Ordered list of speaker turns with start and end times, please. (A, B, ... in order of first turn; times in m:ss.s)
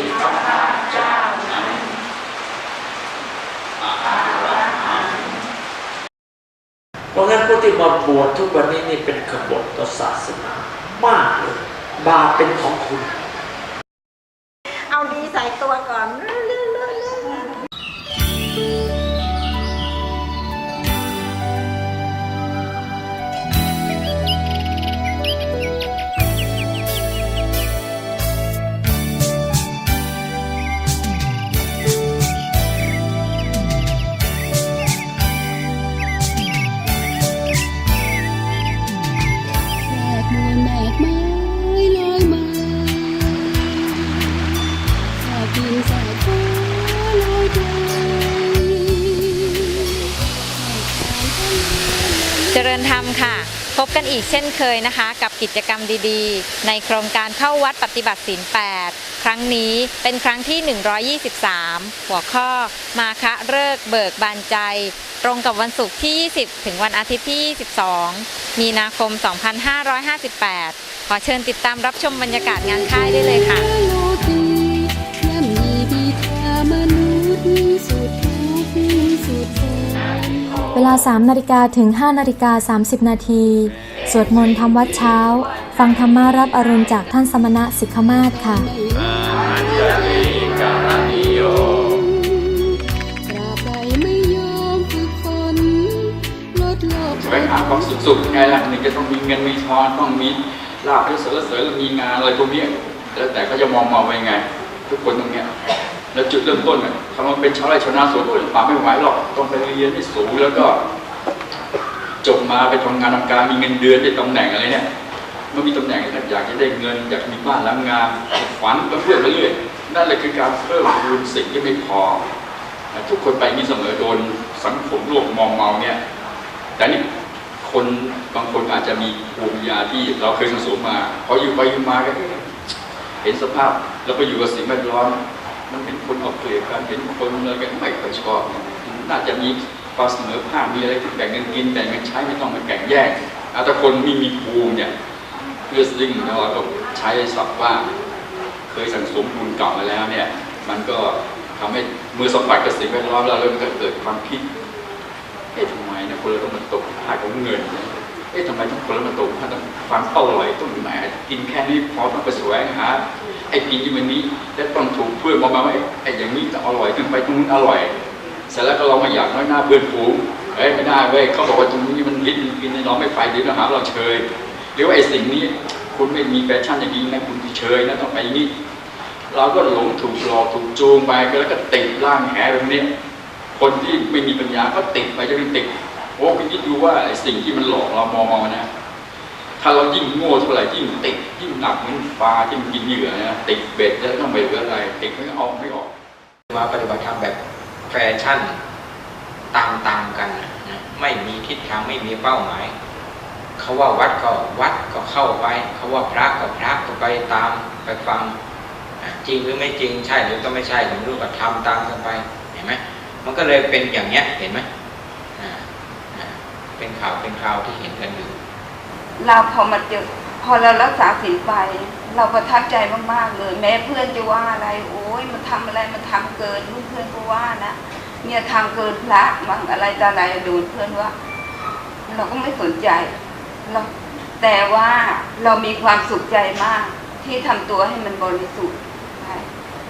0:07.1-0:13.2 A
0:15.0-0:17.0 B
0:39.9-0:43.3 C
0:45.2-0:49.7 C
0:50.6-0:52.9 C
0:52.5-1:13.7 D
1:12.7-1:20.5 C
1:20.8-1:28.7 E
1:28.5-1:32.4 C
1:33.3-1:38.2 C
1:37.2-1:45.5 F
1:46.1-1:50.8 F
1:52.2-1:54.9 F
1:55.5-2:02.2 F
2:02.9-2:06.0 F
2:06.8-2:07.0 F
2:07.6-2:12.5 F
2:13.2-2:15.2 F
2:15.7-2:24.9 F
2:25.7-2:27.9 F
2:28.7-2:34.4 F
2:35.5-2:47.9 F
2:48.5-2:58.5 F
2:59.3-3:02.9 F
3:03.6-3:08.7 F
3:09.6-3:15.9 F
3:16.5-3:17.4 G
3:17.9-3:18.6 G
3:19.5-3:22.7 G
3:23.6-3:28.3 G
3:29.0-3:34.7 G
3:35.4-3:38.4 G
3:39.2-3:51.1 H
3:52.1-3:53.1 H
3:54.4-3:59.5 H